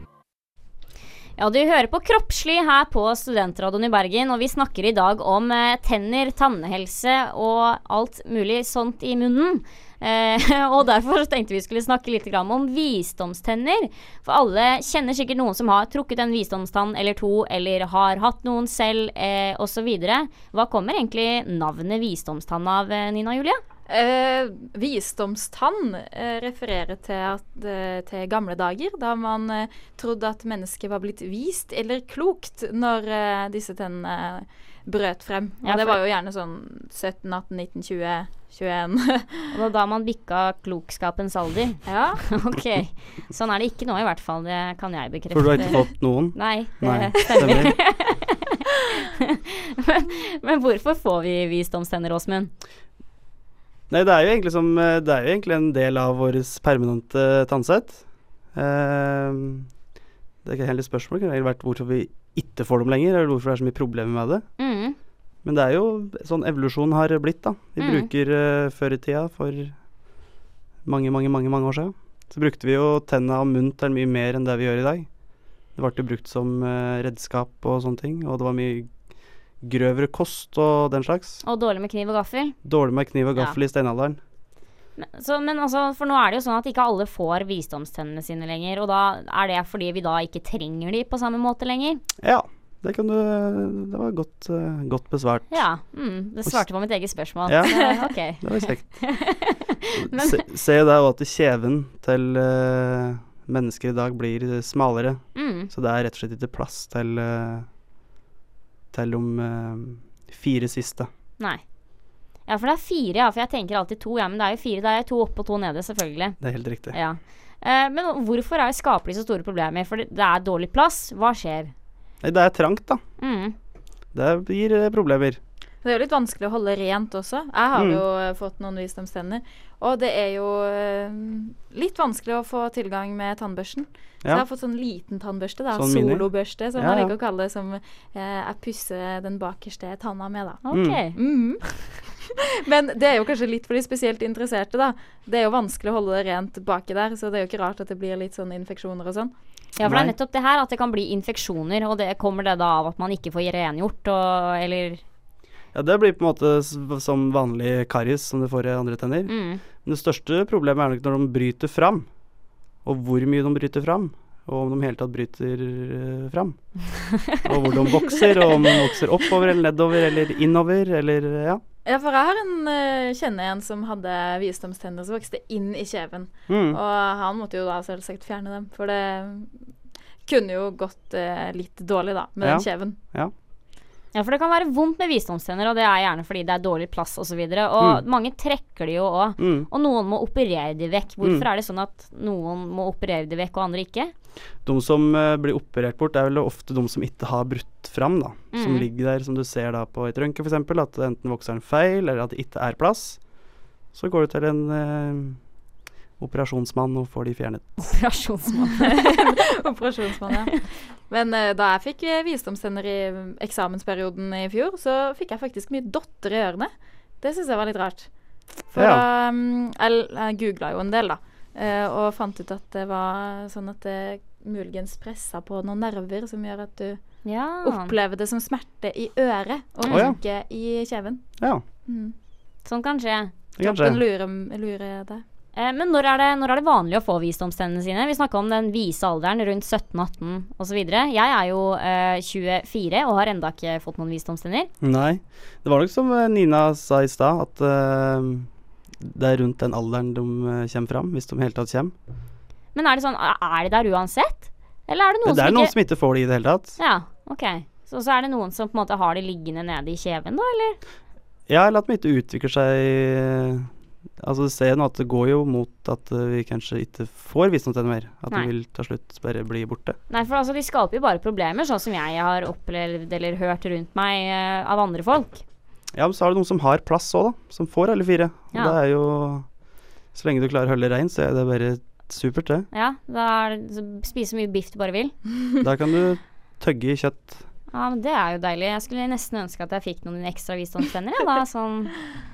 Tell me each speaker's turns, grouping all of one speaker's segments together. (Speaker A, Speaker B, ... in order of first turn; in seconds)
Speaker A: 1.4-23.6, 35.6-36.0, 39.5-48.5, 49.8-52.5, 64.6-65.0, 67.8-68.1, 81.4-82.5, 85.0-92.0, 95.5-100.4, 105.3-105.7, 112.5-116.4, 116.9-121.7, 123.2-123.5, 140.6-141.2, 149.8-155.0, 159.2-159.6, 184.1-194.1, 198.5-198.8, 207.8-209.3, 227.2-227.9, 232.6-233.3, 235.5-244.7, 252.7-255.7, 256.8-260.8, 270.1-275.4, 282.7-285.1, 287.7-292.1
Speaker B: 23.9-39.5, 41.9-42.2, 97.7-98.0, 125.8-140.6, 141.1-149.3, 171.8-179.5, 180.2-183.0, 209.1-216.7, 217.2-218.1, 218.7-227.0, 227.6-232.1, 233.6-235.2
Speaker C: 45.3-47.7, 53.9-59.7, 60.4-64.5, 65.4-69.8, 70.8-75.1, 75.7-78.9, 79.6-81.4, 82.6-84.2, 92.2-95.6, 97.4-97.8, 98.4-99.0, 100.0-107.7, 108.9-111.1, 116.4-117.0, 122.2-123.0, 124.1-125.4, 127.7-128.0, 135.7-137.1, 140.7-141.0, 149.8-150.1, 155.7-162.1, 162.8-166.6, 167.3-171.6, 176.5-176.8, 182.4-183.3, 189.4-189.7, 194.6-203.2, 203.9-205.4, 206.2-207.8, 218.7-219.0, 229.9-230.2, 233.6-234.0, 244.8-248.5, 249.0-251.9, 255.2-256.8, 261.5-270.0, 275.9-279.5, 280.1-282.7, 285.6-287.4